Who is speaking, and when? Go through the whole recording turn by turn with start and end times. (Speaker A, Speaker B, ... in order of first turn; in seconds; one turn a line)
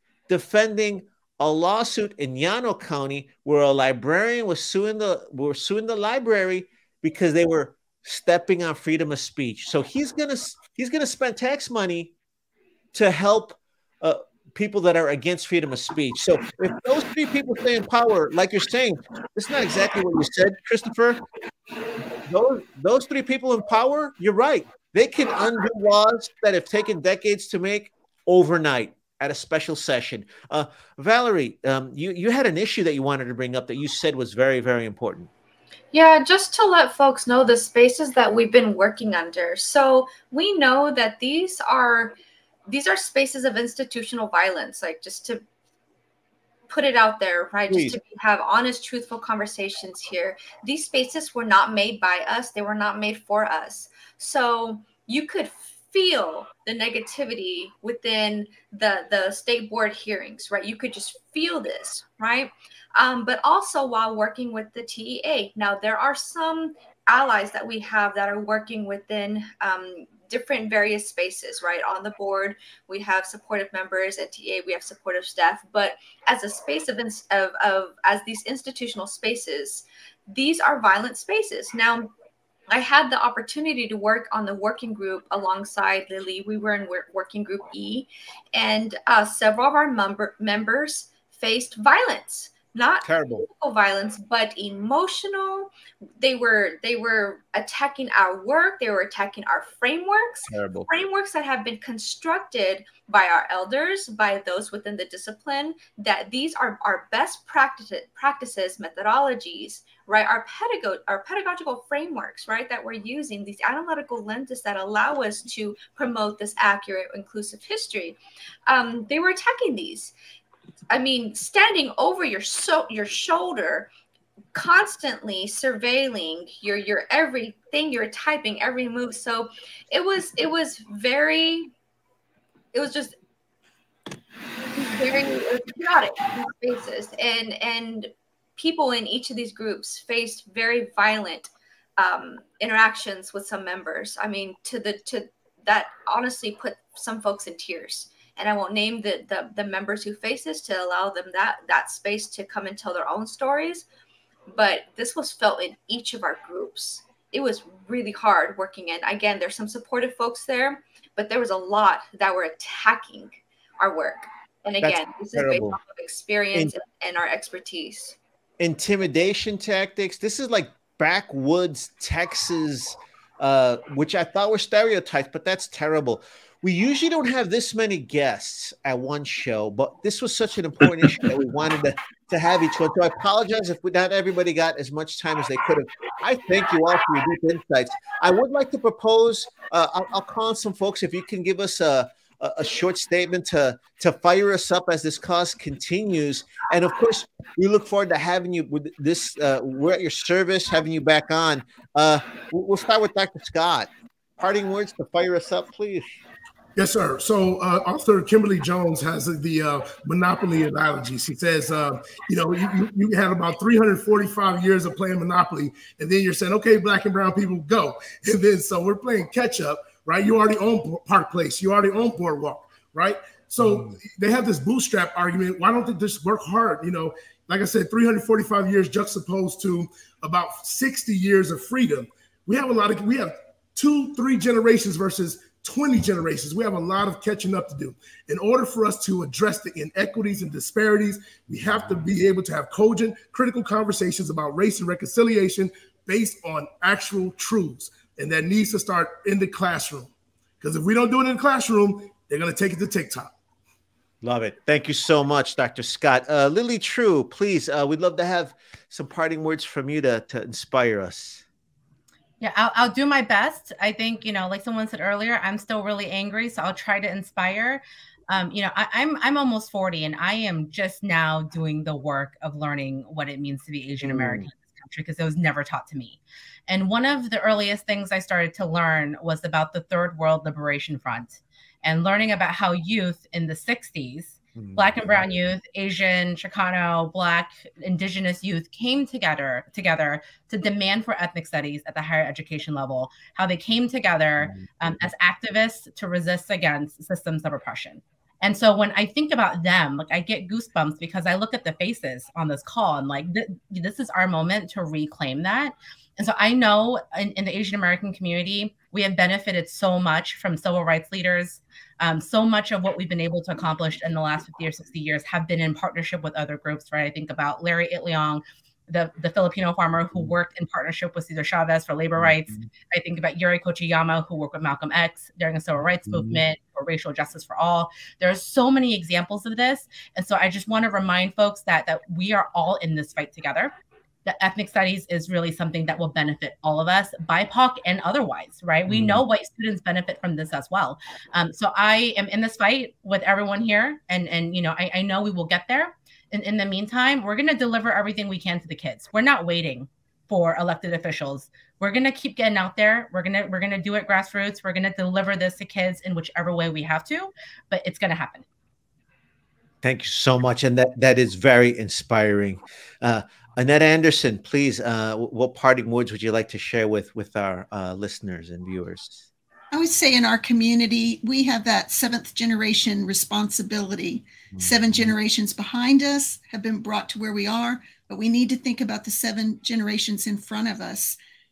Speaker A: 0.3-12.1
Speaker A: 12.9-21.2
Speaker A: 22.3-35.3
Speaker B: 35.9-45.4
Speaker B: 46.7-82.1
Speaker A: 47.7-48.0
Speaker B: 82.7-120.2
Speaker A: 93.0-93.5
Speaker A: 100.5-100.9
Speaker B: 120.9-123.9
Speaker B: 124.5-131.7
Speaker B: 132.7-133.2
Speaker B: 134.7-153.8
Speaker B: 154.5-168.2
Speaker A: 164.8-165.8
Speaker A: 168.6-206.2
Speaker C: 206.8-253.3
Speaker A: 223.7-223.9
Speaker A: 241.7-242.0
Speaker A: 254.2-261.4
Speaker D: 262.4-333.7
Speaker A: 274.0-274.5
Speaker A: 284.6-285.2
Speaker A: 294.4-295.0
Speaker A: 322.2-322.7
Speaker A: 326.1-326.4
Speaker D: 334.2-358.4
Speaker A: 338.9-339.2
Speaker A: 359.8-369.3
Speaker E: 369.7-381.2
Speaker A: 374.5-375.1